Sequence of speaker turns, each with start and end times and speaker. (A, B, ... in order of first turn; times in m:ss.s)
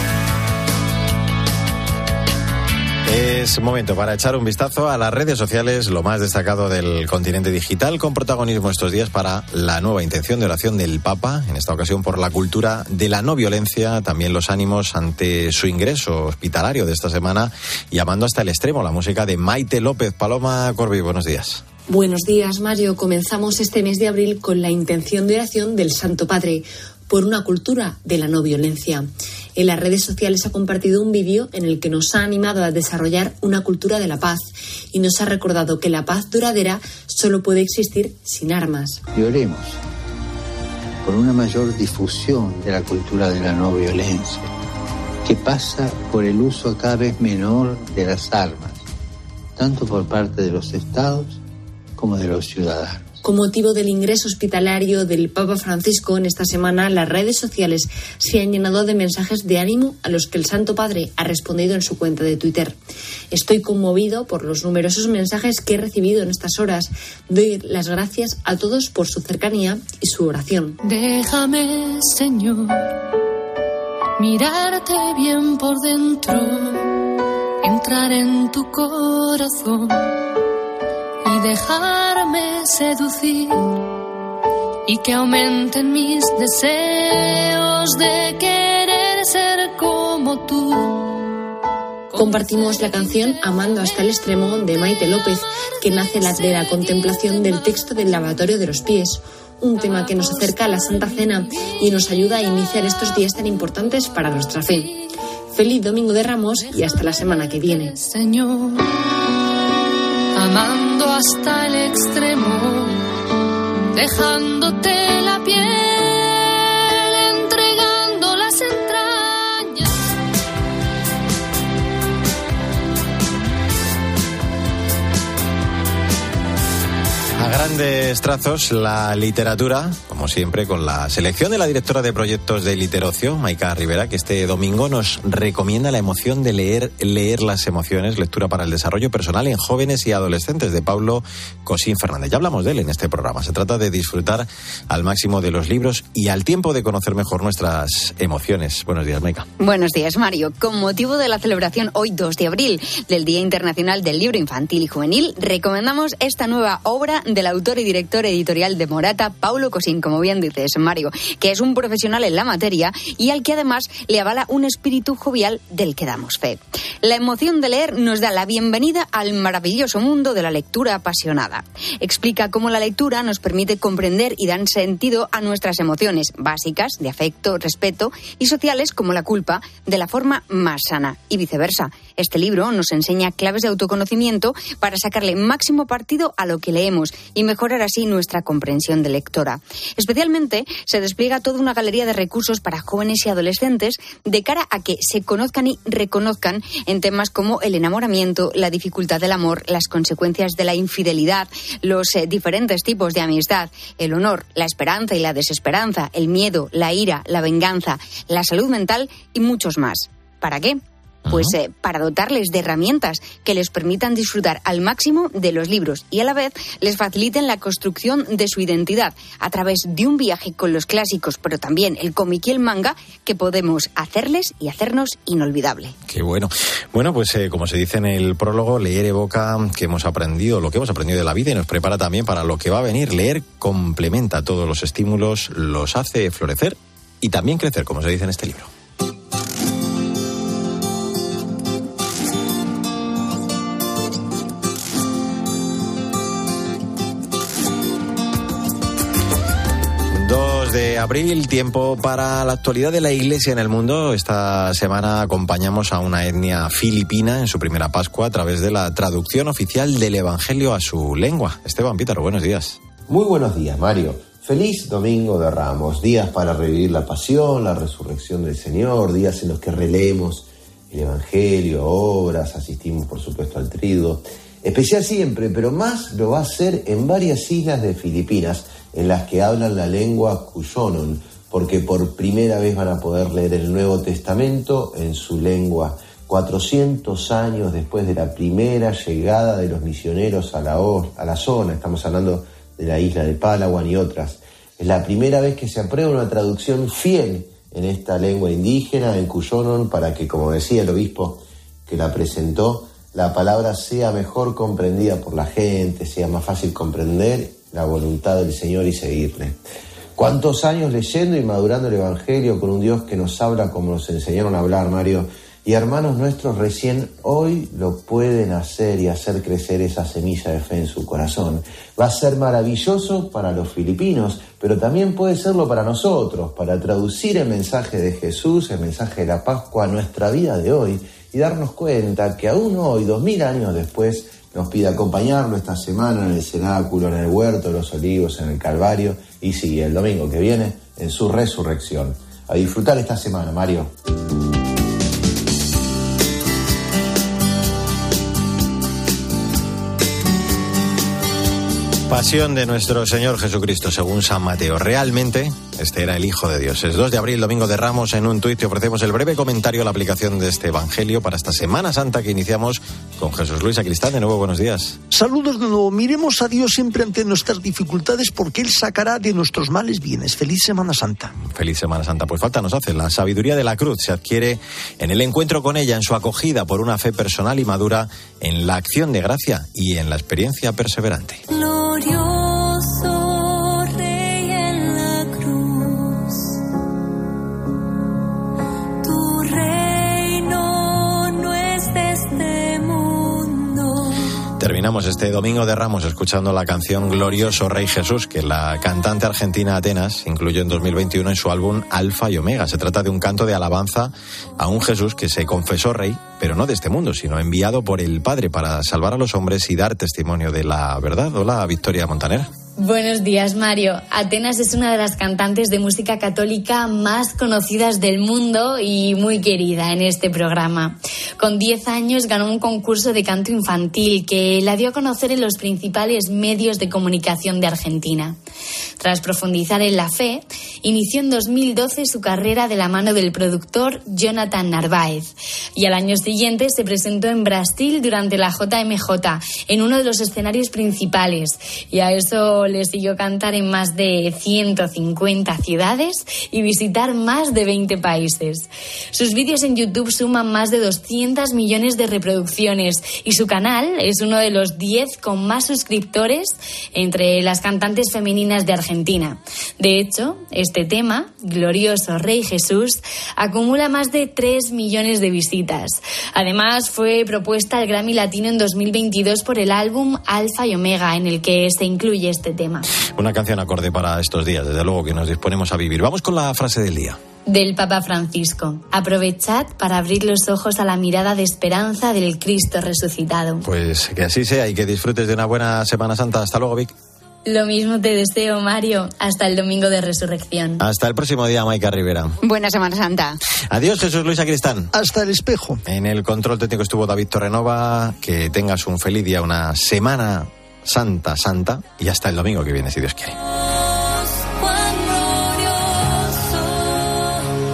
0:03.1-0:21.6 A
0:21.9-0:39.0 B
0:39.2-0:39.8 C
0:41.0-0:44.5 C
0:45.2-0:48.8 C
0:49.6-0:51.4 C
0:52.0-0:53.2 C
0:53.2-1:02.8 B
1:03.3-1:10.8 B
1:10.8-1:12.9 D
1:14.2-1:20.2 D
1:21.2-1:23.9 D
1:24.9-1:31.3 D
1:32.2-1:44.9 B
1:45.5-1:47.9 B
1:48.0-1:48.9 D
1:50.4-1:53.0 D
1:53.9-1:59.9 D
2:07.4-2:29.5 A
2:29.6-3:45.9 E
3:31.3-3:31.5 A
3:46.1-3:58.7 A
4:10.2-4:22.8 A
4:23.1-5:09.6 F
5:10.2-5:43.9 F
5:52.1-6:05.0 A
6:05.1-6:11.3 G
6:11.4-6:21.4 A
6:24.0-6:25.9 D
6:29.1-6:30.6 D
6:31.1-6:33.9 D
6:34.6-6:52.5 A
6:52.8-7:08.4 H
7:09.0-7:52.9 H
7:53.2-7:57.2 A
7:57.5-8:03.6 H
8:03.6-8:06.9 A
8:07.5-8:10.8 H
8:10.8-8:12.4 A
8:12.4-8:13.4 E
8:13.7-8:14.9 A
8:14.9-8:15.8 G
8:15.9-8:23.4 A
8:24.1-8:27.5 D